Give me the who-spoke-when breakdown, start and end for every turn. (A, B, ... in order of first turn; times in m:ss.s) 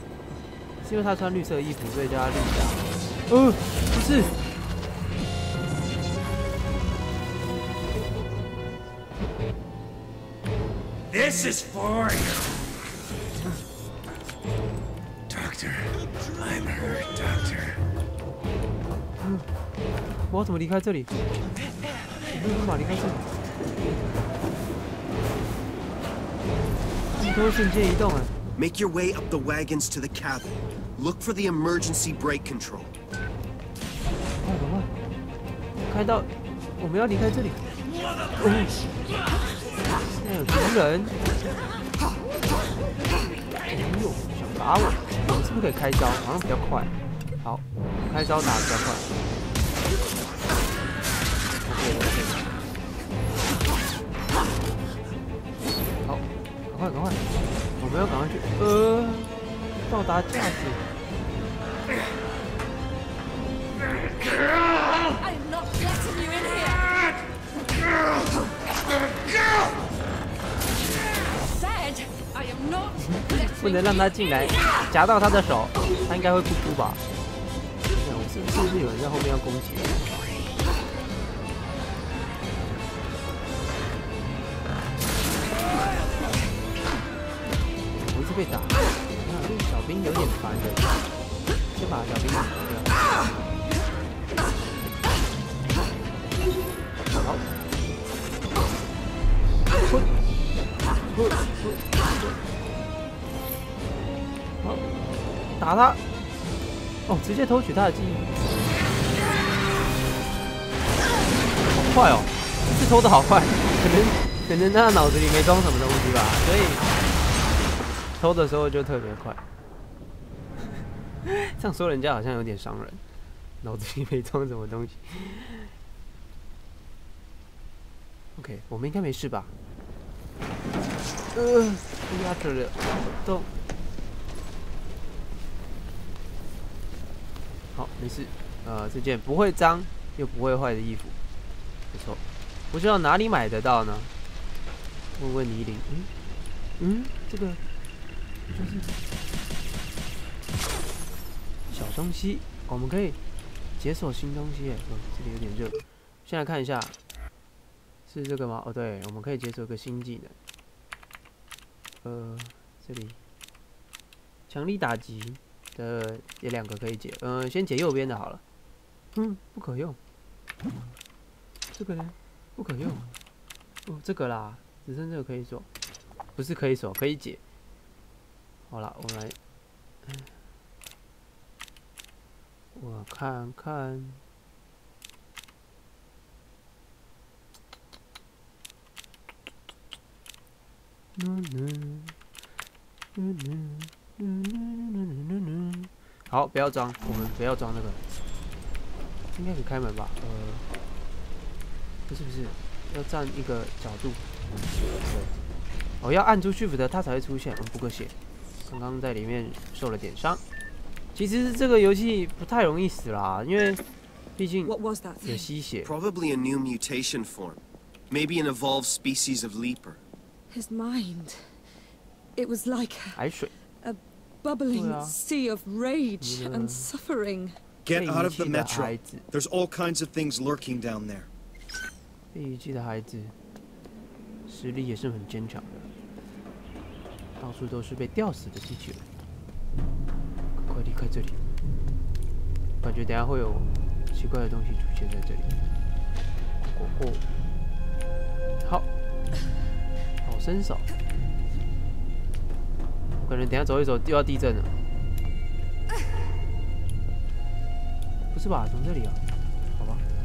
0:00.8-0:04.3 A
0:11.1-0:12.8 B
0:15.3-0:17.8 B
0:19.2-0:19.5 A
0:20.3-0:21.1 A
0:22.3-0:23.3 A
0:27.1-0:28.4 A
0:28.6-0:32.9 C
0:34.4-0:34.9 A
0:35.9-0:37.6 A
0:38.4-0:38.8 A
0:40.0-0:41.2 A
0:43.7-0:49.1 A
0:51.6-0:52.6 A
0:56.0-0:57.2 A
0:57.8-0:59.4 A
0:59.9-1:00.8 A
1:05.1-1:07.0 D
1:11.2-1:14.8 D
1:13.0-1:17.0 A
1:17.9-1:20.1 A
1:27.9-1:30.9 A
1:31.7-1:32.9 A
1:37.1-1:37.4 A
1:39.8-1:40.1 A
1:41.1-1:42.4 A
1:44.6-1:44.9 A
1:45.6-1:46.0 A
1:47.1-1:48.3 A
1:51.6-1:56.8 A
1:58.2-1:59.4 A
2:01.2-2:03.0 A
2:03.6-2:05.7 A
2:08.4-2:09.5 A
2:11.3-2:13.5 A
2:17.7-2:21.2 A
2:21.9-2:24.1 A
2:25.2-2:26.1 A
2:26.8-2:27.6 A
2:28.5-2:28.9 A
2:31.7-2:33.2 A
2:33.8-2:36.9 A
2:38.1-2:40.4 A
2:42.0-2:43.2 A
2:44.5-2:48.4 A
2:49.1-2:50.0 A
2:51.8-2:53.1 A
2:53.9-2:55.7 A
2:56.4-2:57.4 A
2:58.7-2:59.4 A
3:02.7-3:04.2 A
3:11.2-3:12.2 A
3:13.1-3:18.0 A
3:19.3-3:20.6 A
3:22.1-3:24.2 A
3:25.0-3:25.3 A
3:26.0-3:28.1 A
3:28.7-3:30.4 A
3:31.1-3:33.8 A
3:34.4-3:35.9 A
3:34.6-3:35.5 D
3:35.8-3:40.0 C
3:40.5-3:41.7 D
3:42.4-3:43.2 D
3:43.1-3:43.5 A
3:43.8-3:47.6 D
3:44.7-3:45.2 A
3:46.2-3:46.9 A
3:47.8-3:51.3 E
3:47.9-3:49.2 A
3:52.3-3:53.4 A
3:54.5-3:55.9 A
3:57.4-3:59.1 A
4:00.6-4:01.4 A
4:02.8-4:05.5 A
4:06.7-4:07.2 A
4:08.6-4:08.9 A
4:10.2-4:10.9 A
4:13.2-4:14.7 A
4:18.3-4:19.2 A
4:19.8-4:20.0 A